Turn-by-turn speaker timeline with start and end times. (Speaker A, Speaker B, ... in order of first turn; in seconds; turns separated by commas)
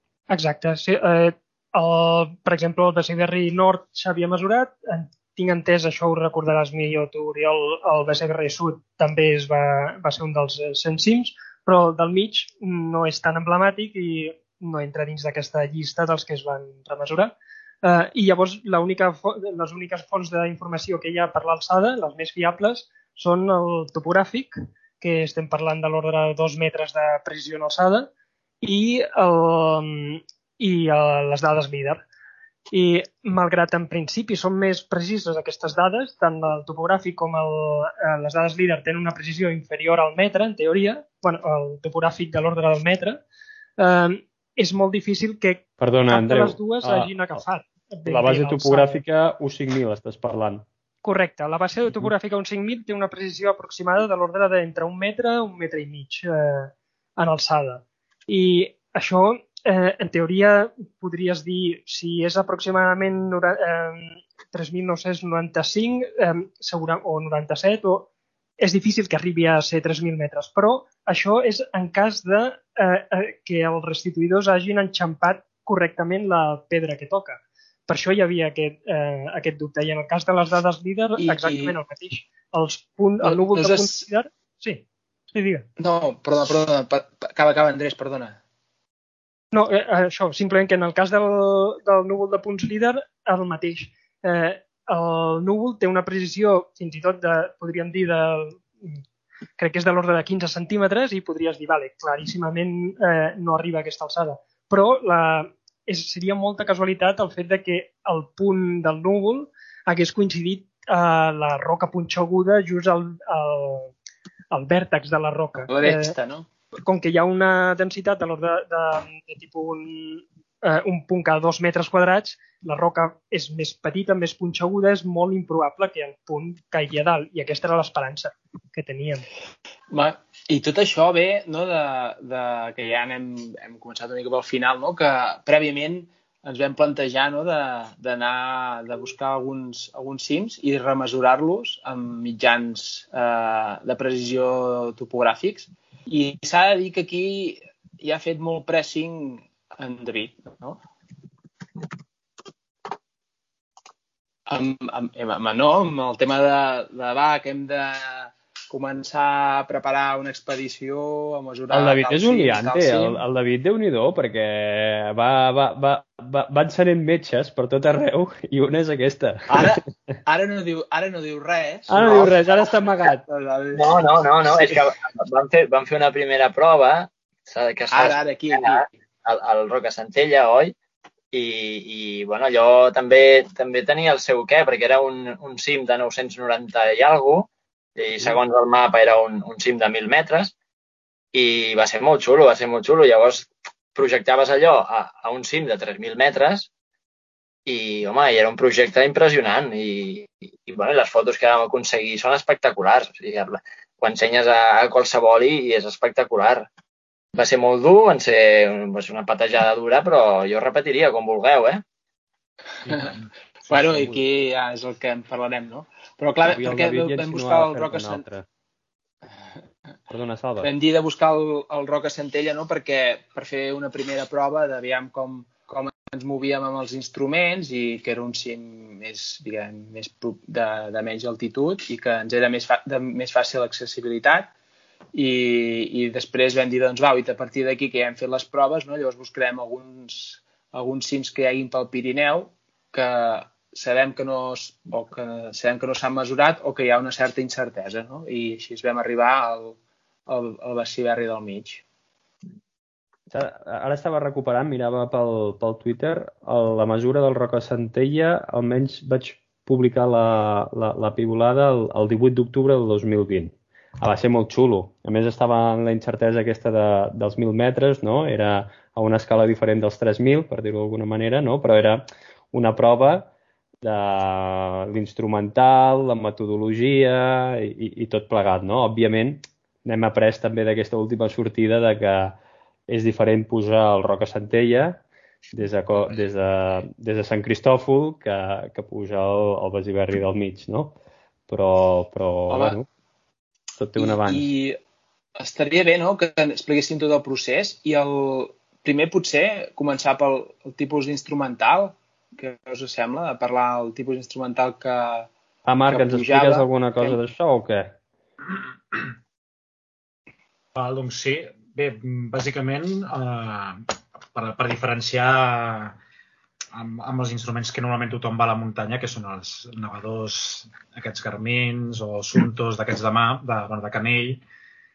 Speaker A: 0.3-28.1, Speaker A: 28.6-32.0, Speaker A: 32.7-43.2, Speaker A: 43.8-49.0, Speaker B: 45.8-47.1, Speaker B: 48.0-50.6, Speaker A: 51.0-85.6, Speaker C: 81.2-81.8, Speaker C: 83.2-84.1, Speaker C: 85.8-88.4, Speaker A: 89.5-99.0, Speaker A: 99.6-113.9, Speaker A: 114.5-116.2, Speaker C: 115.7-116.5, Speaker A: 116.8-129.2, Speaker C: 129.9-150.8, Speaker C: 154.5-163.2, Speaker B: 161.7-169.8, Speaker C: 169.5-172.7, Speaker B: 171.9-173.2, Speaker C: 173.2-174.0, Speaker D: 173.7-180.7, Speaker C: 174.5-174.8, Speaker C: 177.9-178.9, Speaker D: 181.3-190.5, Speaker D: 191.3-196.7, Speaker D: 197.7-206.6, Speaker D: 207.3-211.8, Speaker C: 212.8-213.2, Speaker E: 212.9-214.2, Speaker C: 213.7-218.2, Speaker B: 216.4-218.4, Speaker B: 220.1-220.7, Speaker C: 220.6-234.5, Speaker C: 235.1-251.8, Speaker B: 253.3-273.3, Speaker B: 273.8-282.4, Speaker B: 282.9-285.0, Speaker B: 285.5-290.9, Speaker B: 291.5-292.9, Speaker C: 292.5-292.8, Speaker B: 293.8-294.5, Speaker C: 294.0-294.8, Speaker C: 295.4-305.3, Speaker B: 305.7-307.9, Speaker C: 305.9-307.2, Speaker E: 310.7-316.0, Speaker E: 316.7-324.4